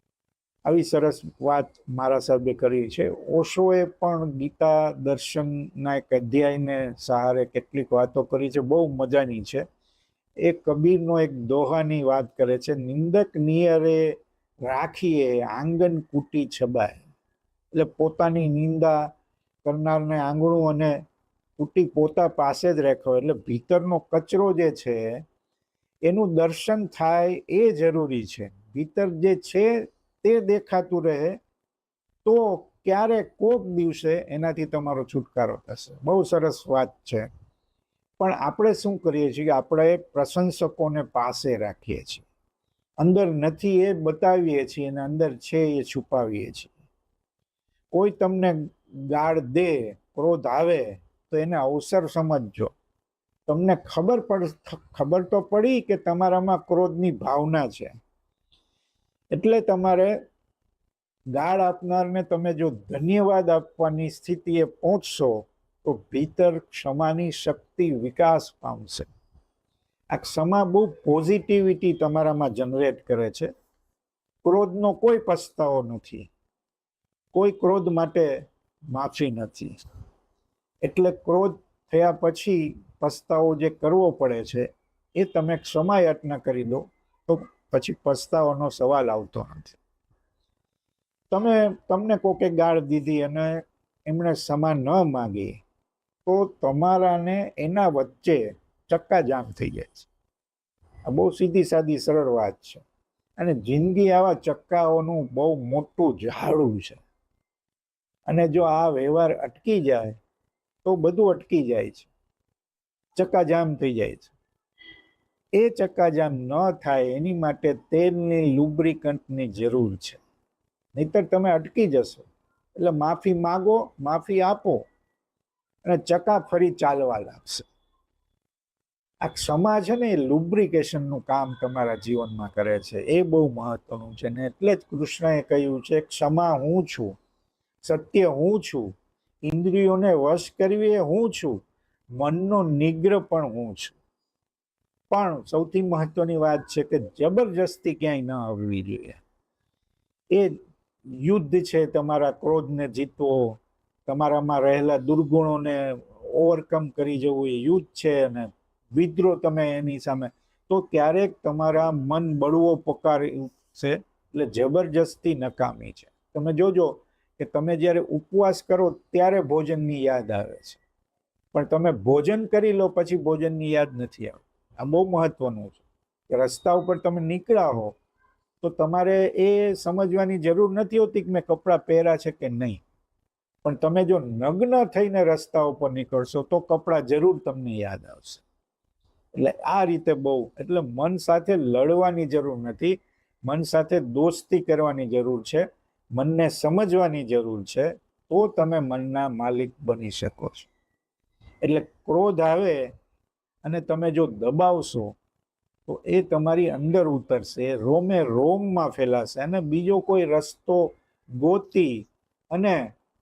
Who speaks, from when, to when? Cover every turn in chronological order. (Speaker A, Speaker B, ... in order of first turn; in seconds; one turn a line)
Speaker A: 0.6-9.6
Speaker A: 10.4-17.0
Speaker A: 17.7-19.1
Speaker A: 19.6-20.9
Speaker A: 21.6-25.2
Speaker A: 26.0-31.4
Speaker A: 32.2-37.3
Speaker A: 38.2-42.2
Speaker A: 43.0-46.7
Speaker A: 47.9-52.7
Speaker A: 53.5-58.0
Speaker A: 59.3-60.1
Speaker A: 61.3-69.1
Speaker A: 70.1-73.5
Speaker A: 74.4-76.3
Speaker A: 77.3-78.3
Speaker A: 78.9-79.8
Speaker A: 80.8-89.8
Speaker A: 91.3-95.6
Speaker A: 96.2-100.1
Speaker A: 101.0-102.8
Speaker A: 103.4-107.0
Speaker A: 108.3-110.2
Speaker A: 110.8-112.1
Speaker A: 113.1-114.3
Speaker A: 115.6-120.2
Speaker A: 120.9-124.9
Speaker A: 125.8-127.7
Speaker A: 129.2-137.1
Speaker A: 137.8-138.9
Speaker A: 139.4-141.6
Speaker A: 142.2-144.0
Speaker A: 145.1-149.2
Speaker A: 151.2-170.8
Speaker A: 171.5-177.9
Speaker A: 178.6-182.8
Speaker A: 183.6-188.4
Speaker A: 189.3-200.7
Speaker A: 201.6-202.9
Speaker A: 203.6-205.2
Speaker A: 205.9-212.9